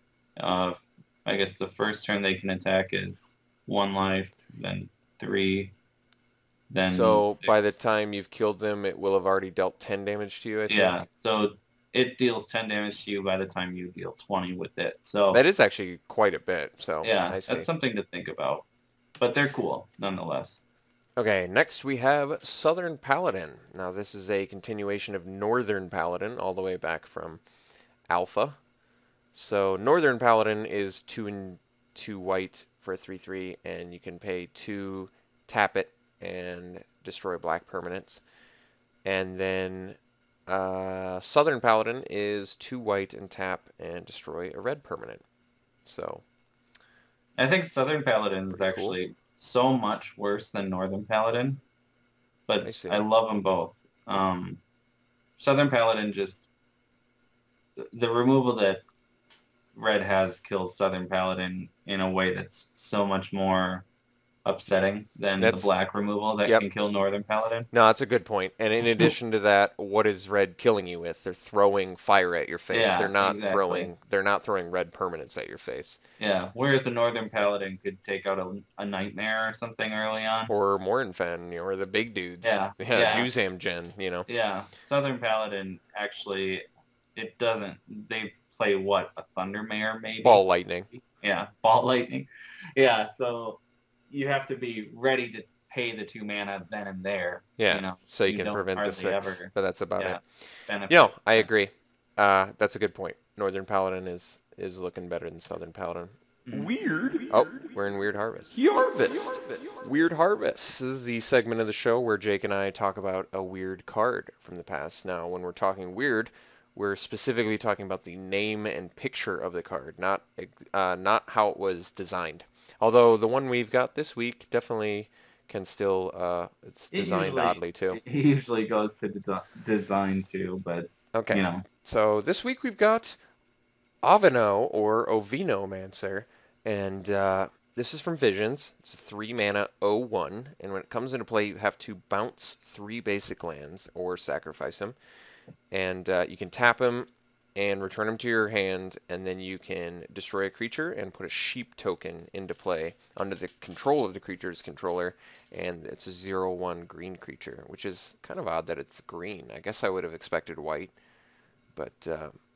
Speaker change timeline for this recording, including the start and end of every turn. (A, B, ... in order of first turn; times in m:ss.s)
0:00.4-0:05.7 A
0:06.7-0:07.8 A
0:06.9-0:11.0 B
0:10.7-0:15.4 A
0:15.3-0:17.7 B
0:17.0-0:18.7 A
0:19.2-0:20.6 A
0:21.2-0:27.4 B
0:28.1-0:28.6 B
0:29.3-0:38.2 B
0:39.0-0:45.2 B
0:45.8-0:46.2 B
0:47.4-0:51.6 A
0:48.5-0:49.0 B
0:52.5-0:54.6 A
0:52.6-0:53.0 B
0:55.4-0:56.5 A
0:57.8-0:58.8 A
0:59.7-1:03.8 A
1:04.4-1:07.7 A
1:05.4-1:05.7 B
1:07.7-1:16.0 B
1:12.7-1:13.9 A
1:16.2-1:20.5 A
1:20.5-1:24.3 B
1:22.4-1:23.3 A
1:24.3-1:41.5 A
1:30.2-1:30.9 B
1:37.6-2:08.0 B
1:46.5-1:47.3 A
2:06.9-2:11.6 A
2:11.1-2:13.2 B
2:14.0-2:25.0 B
2:25.7-2:40.9 B
2:41.8-2:42.4 B